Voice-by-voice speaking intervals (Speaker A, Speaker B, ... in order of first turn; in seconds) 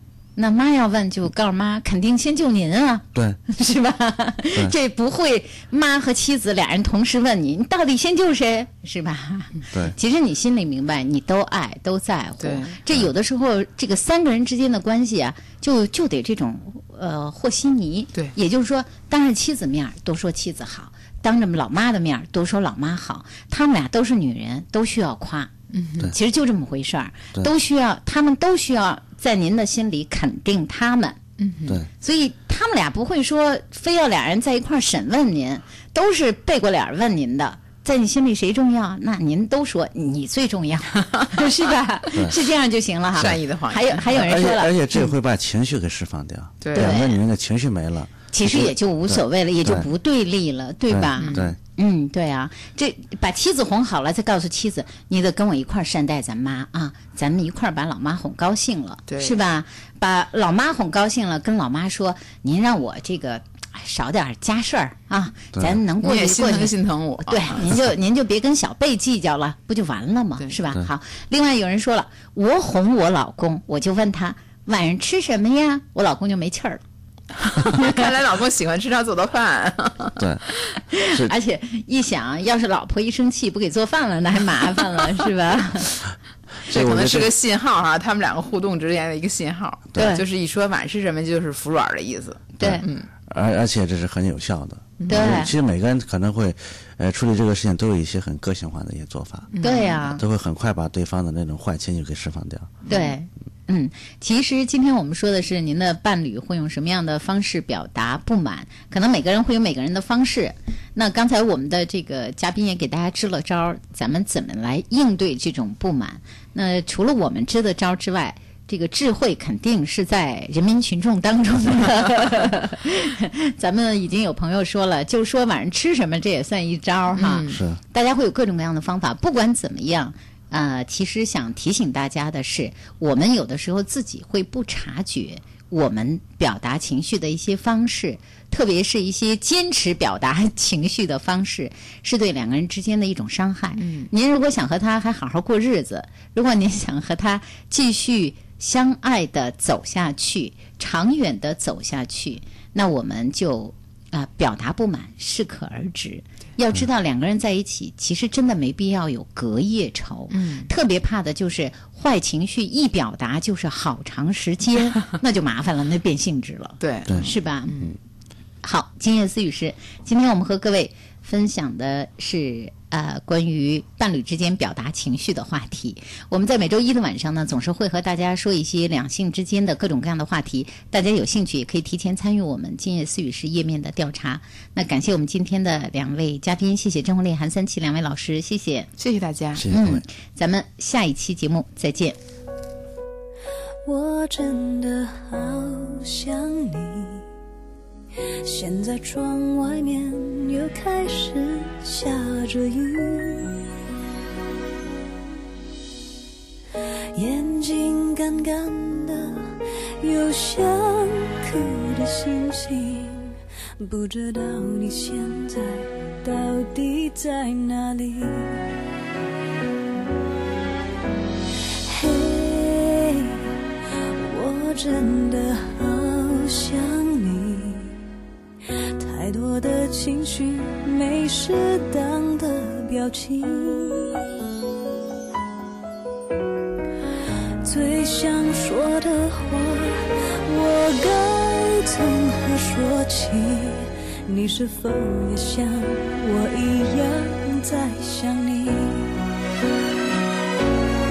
Speaker A: 0.4-25.5, 26.1-31.2, 32.0-45.1, 46.7-47.2, 48.3-76.8, 80.9-85.9, 90.0-90.2, 92.6-92.8, 95.1-95.5, 99.6-100.2, 102.9-167.8, 168.6-188.9, 189.7-192.2
Speaker B: 12.4-12.8, 25.7-26.1, 31.4-31.8, 43.1-44.1, 46.6-47.0, 51.2-51.5, 59.1-59.4, 66.0-67.7, 77.5-80.2, 86.7-93.1, 95.0-95.4, 99.5-100.0, 102.9-103.1, 127.1-127.6, 143.8-144.1, 160.3-160.7, 166.8-167.9, 189.0-189.6
Speaker C: 44.1-49.9, 50.9-51.6, 65.5-65.8, 80.2-80.4, 81.0-81.3, 86.7-87.3, 92.6-102.8, 127.5-127.8, 189.6-190.0
Speaker D: 193.8-197.3, 198.4-203.6, 207.1-218.6, 221.9-223.5, 224.2-228.0, 229.0-234.2, 237.6-249.1